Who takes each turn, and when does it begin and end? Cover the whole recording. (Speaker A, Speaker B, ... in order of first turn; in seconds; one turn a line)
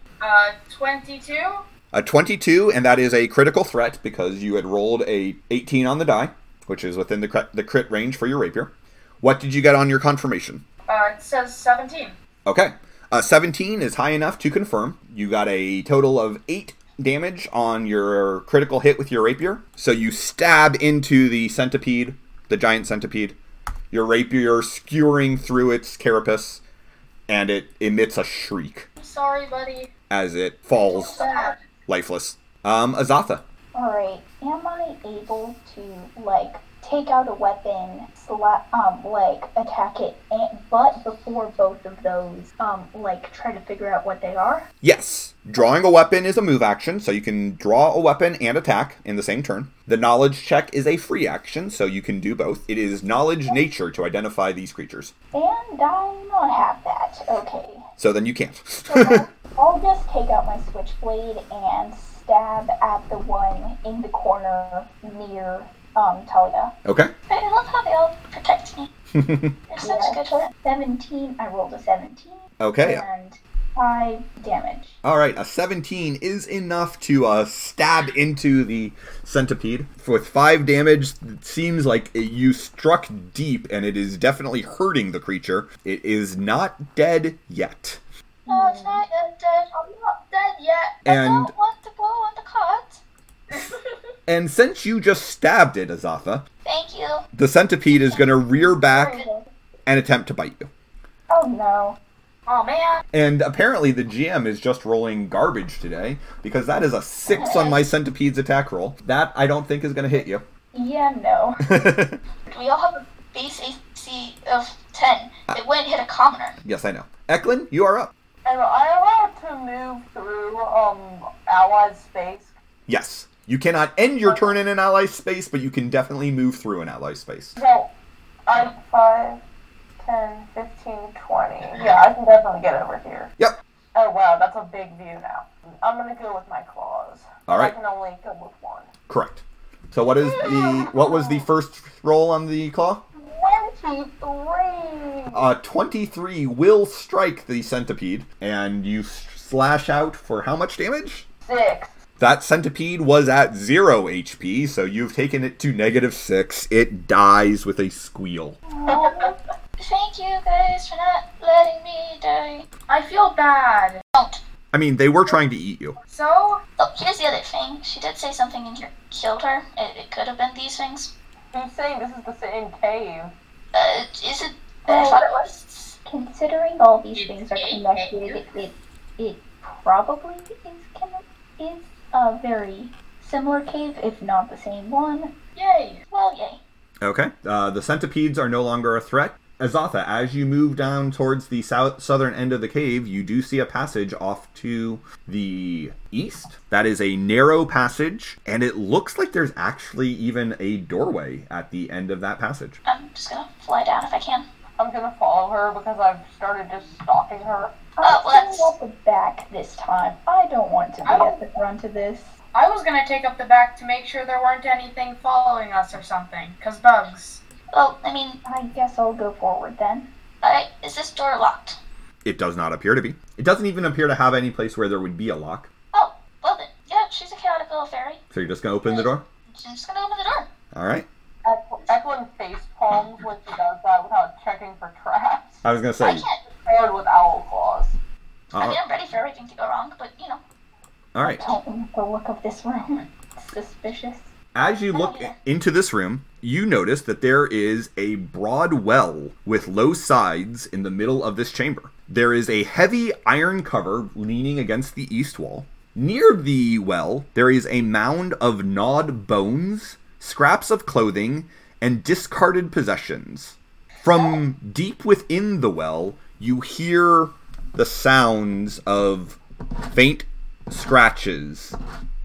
Speaker A: 0.2-1.6
Speaker B: 1.9-10.6
Speaker A: 10.9-12.2
Speaker B: 12.4-23.4
Speaker B: 23.9-26.6
Speaker B: 27.3-28.9
Speaker A: 29.0-29.9
Speaker B: 30.1-31.3
Speaker A: 30.8-31.6
Speaker C: 31.2-31.5
Speaker B: 31.9-33.4
Speaker D: 33.7-44.7
Speaker B: 44.8-55.1
Speaker D: 55.3-57.9
Speaker B: 58.0-59.2
Speaker D: 58.9-66.7
Speaker B: 66.8-67.1
Speaker C: 67.3-68.9
Speaker B: 69.1-69.5
Speaker C: 69.7-70.5
Speaker D: 69.8-75.0
Speaker B: 72.6-73.0
Speaker B: 75.0-88.0
Speaker D: 88.5-89.0
Speaker C: 88.5-89.7
Speaker A: 88.5-88.8
Speaker A: 89.7-91.0
Speaker C: 91.0-93.0
Speaker B: 91.0-91.5
Speaker A: 93.5-93.8
Speaker B: 94.3-96.4
Speaker C: 96.6-97.3
Speaker B: 97.3-99.2
Speaker C: 97.9-99.3
Speaker B: 99.8-100.7
Speaker D: 101.3-102.0
Speaker A: 102.5-103.0
Speaker B: 103.1-110.4
Speaker D: 107.3-107.7
Speaker D: 110.7-111.9
Speaker B: 111.6-112.2
Speaker C: 112.5-116.6
Speaker B: 116.6-118.1
Speaker E: 118.4-122.5
Speaker B: 122.9-127.6
Speaker E: 124.2-124.5
Speaker E: 127.5-127.9
Speaker E: 128.5-129.4
Speaker E: 130.0-133.3
Speaker E: 133.9-138.9
Speaker B: 137.5-137.7
Speaker B: 139.1-143.0
Speaker E: 140.2-141.5
Speaker E: 143.1-145.5
Speaker B: 145.3-151.2
Speaker E: 151.4-151.9
Speaker B: 152.2-158.6
Speaker D: 158.7-159.3
Speaker E: 158.9-159.3
Speaker C: 159.8-162.7
Speaker A: 162.9-164.0
Speaker C: 164.1-164.4
Speaker B: 164.7-166.0
Speaker A: 166.1-166.6
Speaker C: 166.8-171.1
Speaker E: 171.5-173.3
Speaker C: 173.7-176.0
Speaker E: 174.9-175.2
Speaker D: 176.0-185.3
Speaker A: 177.1-178.4
Speaker A: 185.6-186.0
Speaker C: 186.1-186.6
Speaker B: 187.0-202.8
Speaker C: 202.8-204.4
Speaker E: 204.8-207.7
Speaker D: 208.0-212.3
Speaker C: 208.0-208.7
Speaker A: 211.0-211.4
Speaker A: 212.5-217.4
Speaker C: 217.7-218.4
Speaker D: 218.4-220.1
Speaker C: 220.4-221.8
Speaker B: 222.2-225.7
Speaker C: 225.9-228.2
Speaker B: 228.3-229.2
Speaker C: 228.8-230.5
Speaker B: 230.7-231.1
Speaker E: 231.4-235.6
Speaker B: 235.6-236.2
Speaker C: 236.0-236.4
Speaker E: 236.5-238.0
Speaker B: 238.5-238.8
Speaker C: 238.5-240.4
Speaker B: 241.1-241.5
Speaker D: 241.2-244.3
Speaker B: 244.5-271.8
Speaker C: 244.9-245.3